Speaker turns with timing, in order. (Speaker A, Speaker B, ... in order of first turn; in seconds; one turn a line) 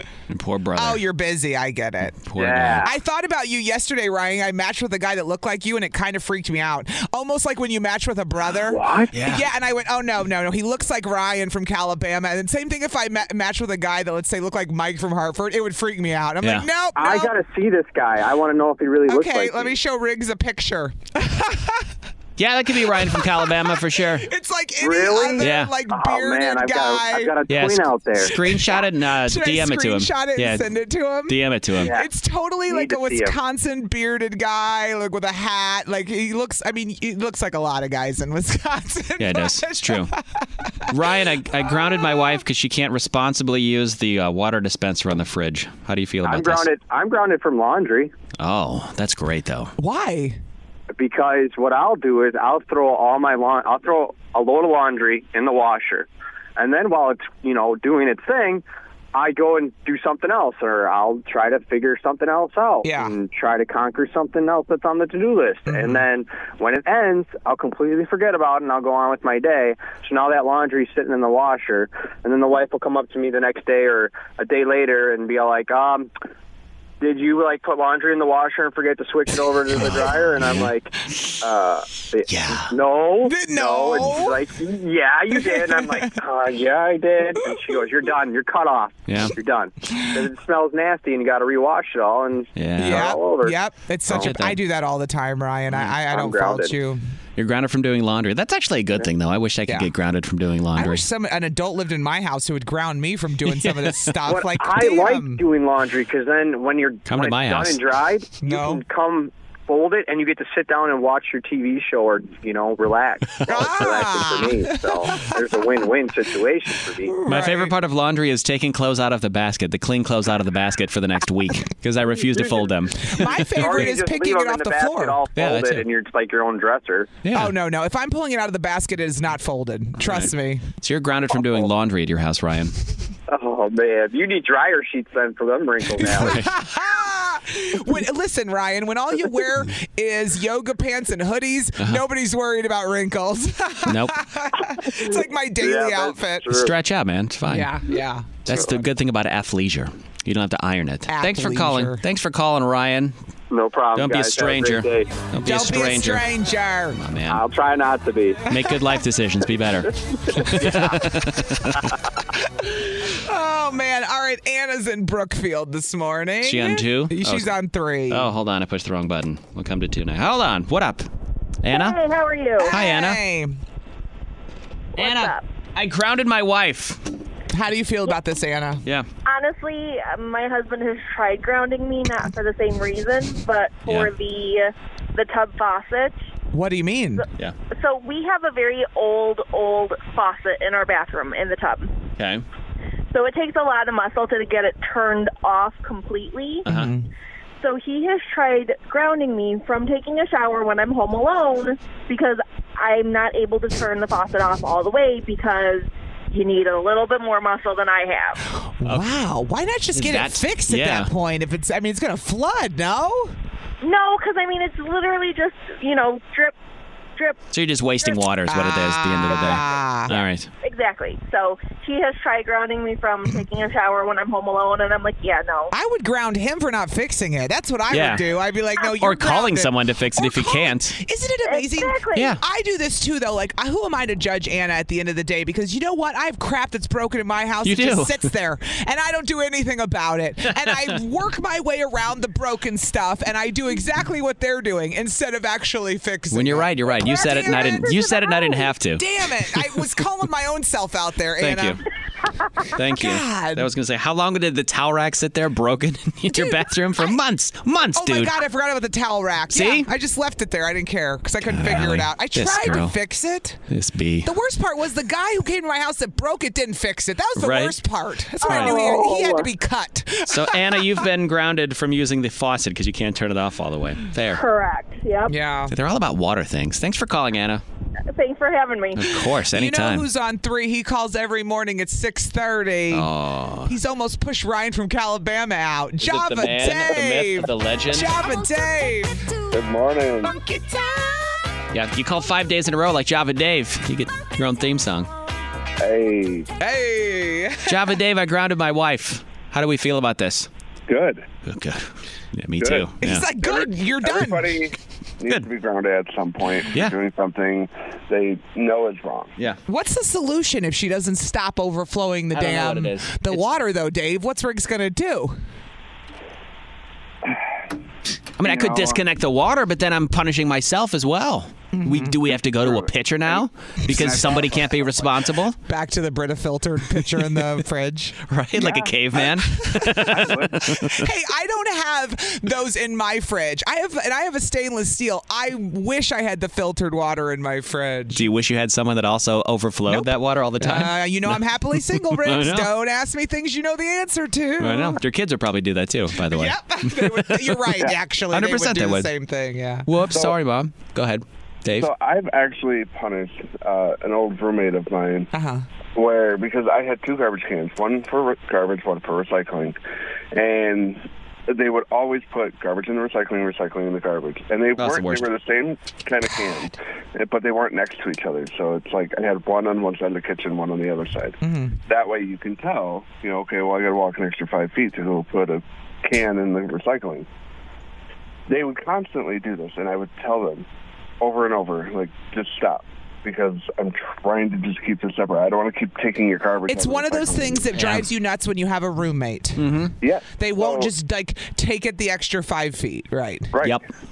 Speaker A: 0.3-1.0
Speaker B: 0.8-2.2
Speaker A: 2.2-2.9
Speaker C: 2.4-2.9
Speaker B: 2.8-17.3
Speaker C: 8.6-9.1
Speaker A: 9.1-9.4
Speaker A: 16.4-16.7
Speaker C: 16.9-19.8
Speaker B: 19.1-21.9
Speaker A: 22.4-24.3
Speaker B: 23.0-27.4
Speaker C: 24.8-28.3
Speaker A: 25.4-25.7
Speaker A: 27.5-30.7
Speaker B: 28.3-40.9
Speaker A: 31.3-31.9
Speaker C: 31.8-32.1
Speaker C: 32.7-33.3
Speaker A: 39.2-40.1
Speaker A: 40.9-46.7
Speaker B: 41.6-42.3
Speaker C: 46.2-48.1
Speaker A: 48.4-49.7
Speaker B: 49.8-50.4
Speaker C: 50.9-76.1
Speaker B: 62.8-63.1
Speaker B: 65.7-66.0
Speaker C: 77.0-93.5
Speaker A: 80.4-80.7
Speaker A: 82.3-82.7
Speaker B: 83.2-84.4
Speaker B: 85.3-86.1
Speaker B: 87.4-87.8
Speaker A: 89.1-89.3
Speaker A: 92.5-93.1
Speaker B: 92.8-97.0
Speaker A: 94.1-94.6
Speaker C: 96.0-96.7
Speaker A: 97.4-101.0
Speaker B: 100.8-105.4
Speaker A: 103.5-104.2
Speaker C: 104.3-117.2
Speaker A: 107.1-107.8
Speaker B: 108.4-108.8
Speaker B: 113.5-115.4
Speaker B: 117.0-117.7
Speaker A: 117.2-124.0
Speaker C: 122.2-122.7
Speaker B: 123.0-125.2
Speaker C: 123.6-127.2
Speaker A: 125.4-125.9
Speaker A: 127.2-127.5
Speaker B: 127.3-130.6
Speaker A: 130.0-132.7
Speaker C: 133.3-136.4
Speaker A: 135.9-136.5
Speaker B: 136.1-146.6
Speaker A: 143.8-144.2
Speaker C: 145.0-146.7
Speaker A: 146.5-147.7
Speaker B: 147.5-148.4
Speaker A: 148.4-153.2
Speaker B: 151.1-152.0
Speaker C: 153.5-155.1
Speaker A: 153.9-156.2
Speaker B: 155.4-157.0
Speaker A: 156.9-157.4
Speaker C: 157.3-158.4
Speaker A: 158.5-161.9
Speaker C: 160.3-161.0
Speaker B: 162.6-168.3
Speaker A: 166.4-167.5
Speaker A: 168.1-171.1
Speaker A: 171.6-172.0
Speaker D: 171.7-172.8
Speaker B: 172.6-173.6
Speaker A: 172.7-173.2
Speaker D: 175.0-175.4
Speaker A: 175.0-177.0
Speaker B: 177.5-178.8
Speaker D: 179.2-186.2
Speaker B: 186.5-187.2
Speaker D: 187.7-191.9
Speaker A: 192.2-192.4
Speaker D: 193.1-196.7
Speaker A: 196.7-196.9
Speaker B: 196.7-197.1
Speaker D: 197.6-208.4
Speaker B: 208.8-213.3
Speaker A: 208.9-209.1
Speaker A: 209.9-211.1
Speaker D: 213.8-216.5
Speaker A: 217.5-220.5
Speaker B: 218.5-220.2
Speaker D: 220.6-225.7
Speaker B: 225.7-251.8
Speaker A: 227.9-228.2
Speaker A: 228.8-231.0
Speaker D: 231.4-232.3
Speaker A: 232.1-232.4
Speaker A: 237.6-238.3
Speaker A: 246.3-249.9
Speaker A: 251.4-251.8
Speaker A: 252.7-258.4
Speaker B: 252.9-253.7
Speaker B: 256.3-257.1
Speaker B: 257.9-263.6
Speaker A: 259.5-259.9
Speaker A: 261.5-262.9
Speaker A: 263.7-264.3
Speaker B: 264.2-271.0
Speaker A: 267.4-267.8
Speaker A: 268.4-268.9
Speaker C: 268.5-269.4
Speaker A: 270.3-274.4
Speaker D: 274.3-275.3
Speaker B: 275.3-275.7
Speaker A: 275.7-277.6
Speaker D: 278.1-279.2
Speaker A: 278.9-280.1
Speaker B: 279.5-283.1
Speaker A: 282.9-283.7
Speaker B: 283.7-289.3
Speaker A: 286.0-288.2
Speaker E: 289.5-290.4
Speaker B: 290.2-291.4
Speaker A: 291.7-295.1
Speaker E: 295.8-296.5
Speaker B: 296.6-297.8
Speaker A: 297.6-300.5
Speaker E: 300.9-301.2
Speaker A: 301.4-303.3
Speaker E: 302.6-302.9
Speaker B: 303.0-304.6
Speaker E: 303.4-309.3
Speaker B: 309.7-315.4
Speaker A: 312.3-313.4
Speaker A: 318.4-325.6
Speaker E: 318.4-319.0
Speaker B: 321.7-322.1
Speaker E: 322.6-325.1
Speaker B: 325.6-338.2
Speaker A: 328.3-331.1
Speaker E: 330.1-330.5
Speaker A: 338.1-342.7
Speaker B: 339.9-345.0
Speaker A: 344.6-349.1
Speaker B: 346.3-349.9
Speaker A: 349.9-351.9
Speaker E: 351.8-355.3
Speaker B: 355.3-355.6
Speaker E: 355.9-359.8
Speaker E: 360.3-377.3
Speaker A: 364.8-365.3
Speaker B: 371.4-371.8
Speaker E: 378.5-380.6
Speaker E: 381.2-387.7
Speaker B: 386.7-389.6
Speaker A: 387.7-388.1
Speaker A: 389.6-389.9
Speaker E: 390.0-390.9
Speaker B: 390.4-393.5